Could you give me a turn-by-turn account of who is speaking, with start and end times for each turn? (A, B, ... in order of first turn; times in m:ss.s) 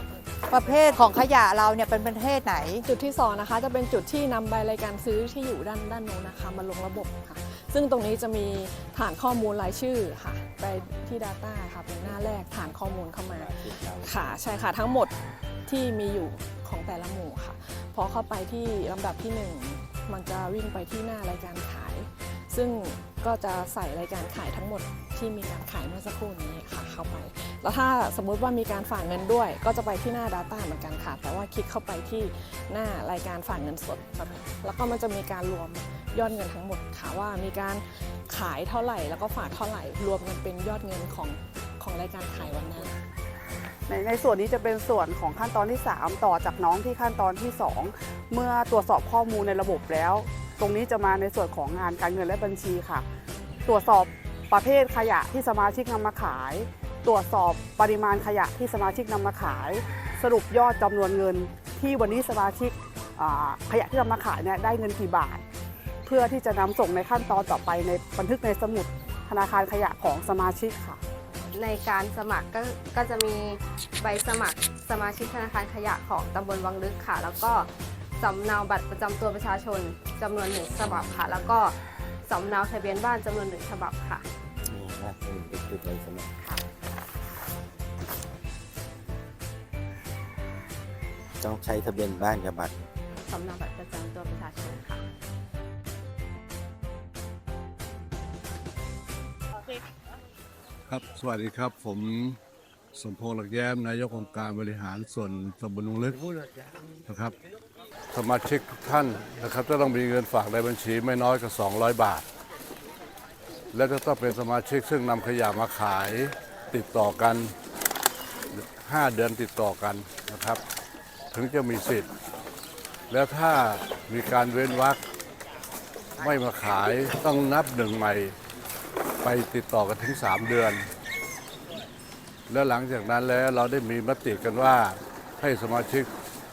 0:00.5-0:02.8 A
0:02.8-0:15.1 B
0:13.3-0:14.3 C
0:15.7-0:42.9 B
0:43.9-0:53.1 D
0:53.7-1:05.4 D
1:06.0-1:11.0 D
1:11.5-1:24.2 E
1:20.8-1:21.5 C
1:24.7-1:26.3 C
1:31.4-1:32.8 C
1:33.2-1:35.0 E
1:40.9-1:42.4 F
1:42.9-1:46.2 F
1:47.1-1:47.4 F
1:48.1-1:52.3 F
1:53.7-1:57.5 F
1:58.5-2:00.6 F
2:01.3-2:02.1 F
2:03.1-2:05.0 F
2:06.2-2:08.4 F
2:09.2-2:10.8 F
2:12.5-2:16.1 F